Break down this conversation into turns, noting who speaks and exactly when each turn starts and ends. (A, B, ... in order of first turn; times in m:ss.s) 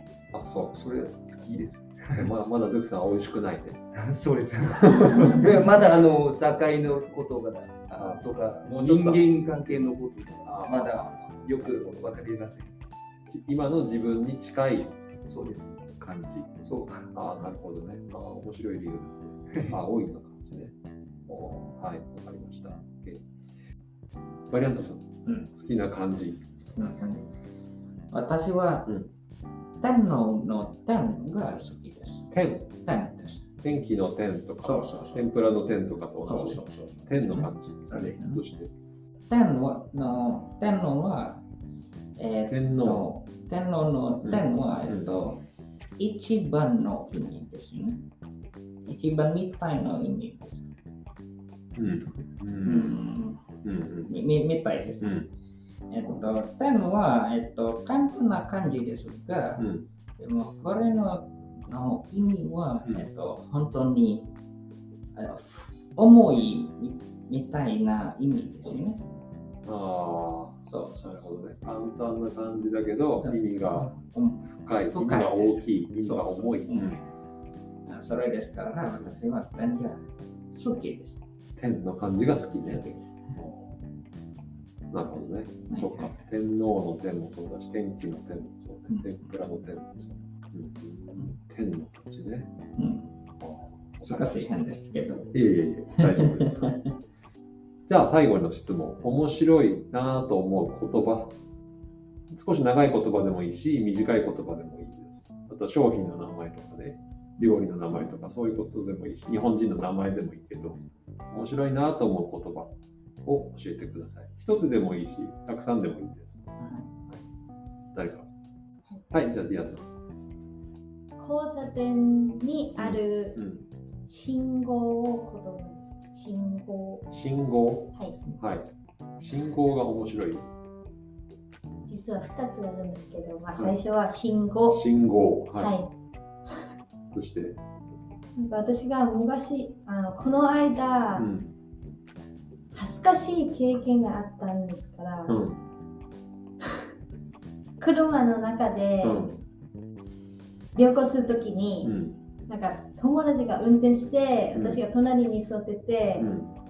0:00.3-0:00.7 A
0:00.7-0:02.3 B
0:02.1-0:03.8 A
0:04.0-0:12.7 B
0:04.9-0:05.3 A
0:08.0-0:09.2 A
0:10.4-0:12.2 A
0:13.3-0:15.0 A
0:15.2-0:15.9 B
0:16.0-0:20.7 A
0:16.6-0:17.1 B
0:21.3-0:23.2 A
0:24.5-0:26.4 A
0:26.6-0:27.3 C
0:28.1-0:28.9 C
0:28.8-0:29.1 A
0:29.8-0:33.4 C
0:32.3-0:32.7 A
0:33.6-0:38.7 A
0:34.6-0:35.3 C
0:36.2-0:38.4 C
0:39.3-0:41.4 C
0:42.2-0:45.4 C
0:42.5-0:43.0 A
0:44.2-0:45.2 A
0:46.0-0:48.0 C
0:48.8-0:50.7 C
0:51.8-0:53.0 A
0:52.6-0:53.4 C
0:53.6-0:54.1 A
0:54.1-0:55.2 C
0:55.0-0:55.3 A
0:55.9-0:59.7 C
0:59.6-0:59.9 A
1:00.2-1:04.3 C
1:05.1-1:09.0 C
1:09.6-1:13.9 A
1:10.6-1:11.4 C
1:13.2-1:17.0 C
1:14.6-1:17.0 A
1:17.9-1:21.2 C
1:21.6-1:23.6 A
1:22.6-1:23.4 C
1:24.9-1:32.5 A
1:25.7-1:26.2 C
1:28.9-1:29.3 C
1:32.8-1:33.1 C
1:33.4-1:34.5 A
1:34.0-1:35.3 C
1:35.3-1:36.8 A
1:36.0-1:36.9 C
1:37.9-1:41.4 A
1:42.3-1:50.8 A
1:51.3-1:52.7 A
1:53.2-1:56.5 A
1:56.6-1:56.9 C
1:57.9-1:58.3 A
1:59.1-1:59.9 A
2:01.2-2:03.4 D
2:02.8-2:03.7 A
2:04.1-2:07.0 D
2:07.1-2:10.5 A
2:11.8-2:14.8 D
2:14.7-2:15.7 A
2:15.6-2:15.9 D
2:17.1-2:17.6 A
2:18.4-2:21.2 D
2:21.1-2:21.5 A
2:22.7-2:25.4 D
2:25.3-2:25.6 A
2:27.8-2:29.3 D
2:29.0-2:29.4 A
2:30.7-2:31.9 D
2:31.8-2:32.2 A
2:32.5-2:36.3 D
2:34.5-2:34.8 A
2:36.2-2:36.5 A